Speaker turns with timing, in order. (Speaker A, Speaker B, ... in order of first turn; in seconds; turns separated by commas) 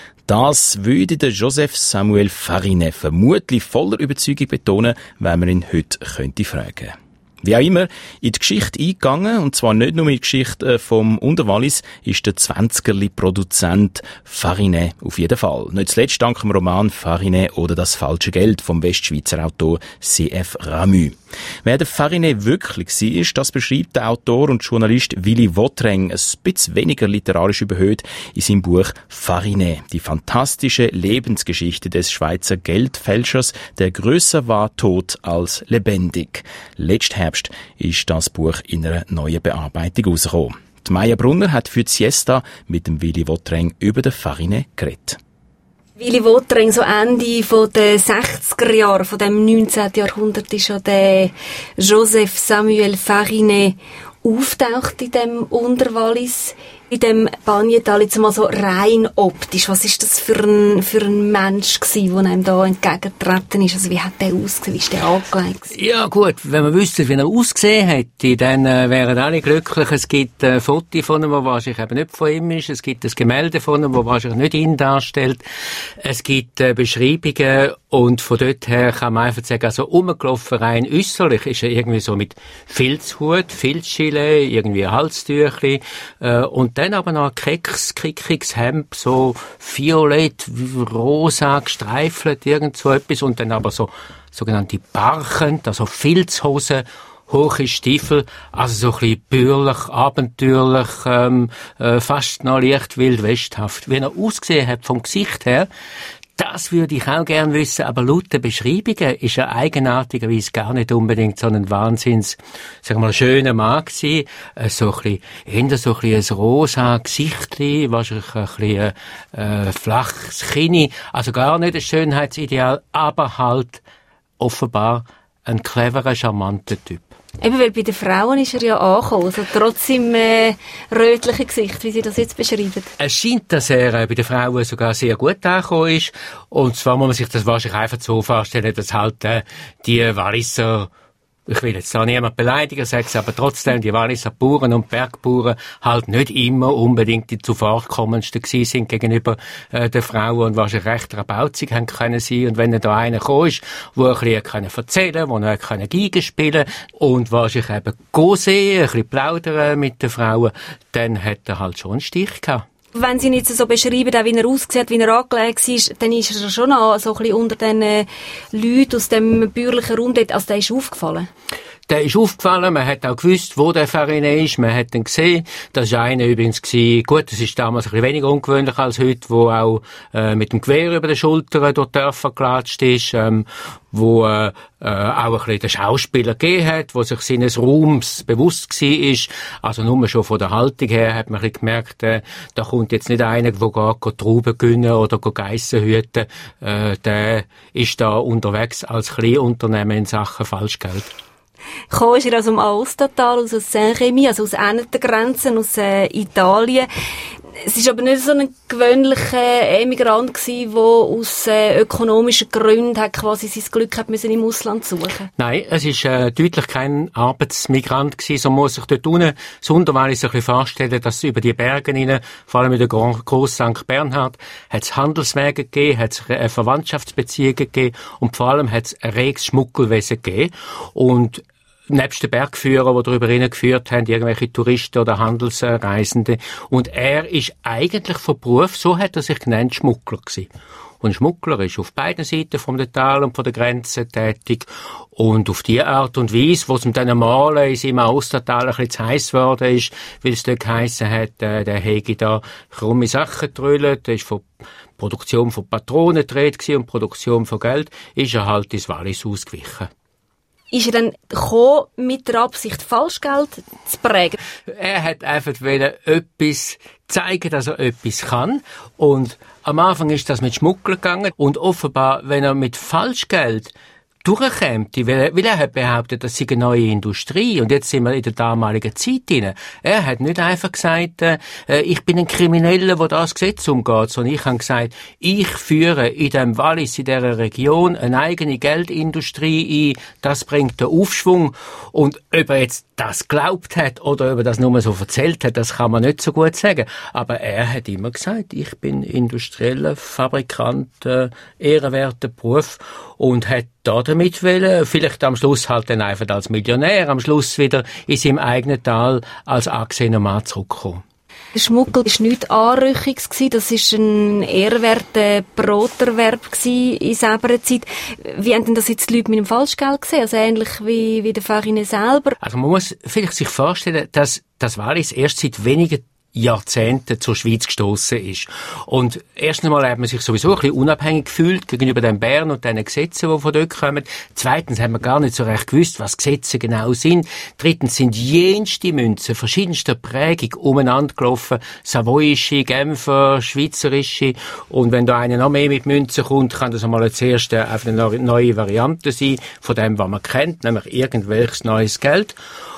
Speaker A: 0.3-45.2, Speaker B: 46.0-65.7, Speaker C: 65.7-75.4, Speaker C: 76.0-105.7, Speaker C: 106.4-123.8, Speaker C: 124.4-127.2, Speaker B: 127.4-132.9, Speaker C: 133.0-140.9, Speaker C: 141.5-162.7, Speaker B: 162.9-171.3, Speaker C: 171.9-201.1, Speaker B: 201.9-206.9, Speaker B: 207.7-215.3, Speaker C: 215.4-240.5, Speaker C: 241.0-254.4, Speaker C: 255.0-259.9, Speaker B: 260.7-264.4, Speaker C: 264.7-273.7, Speaker C: 274.2-311.0, Speaker B: 311.6-322.4, Speaker C: 322.4-352.4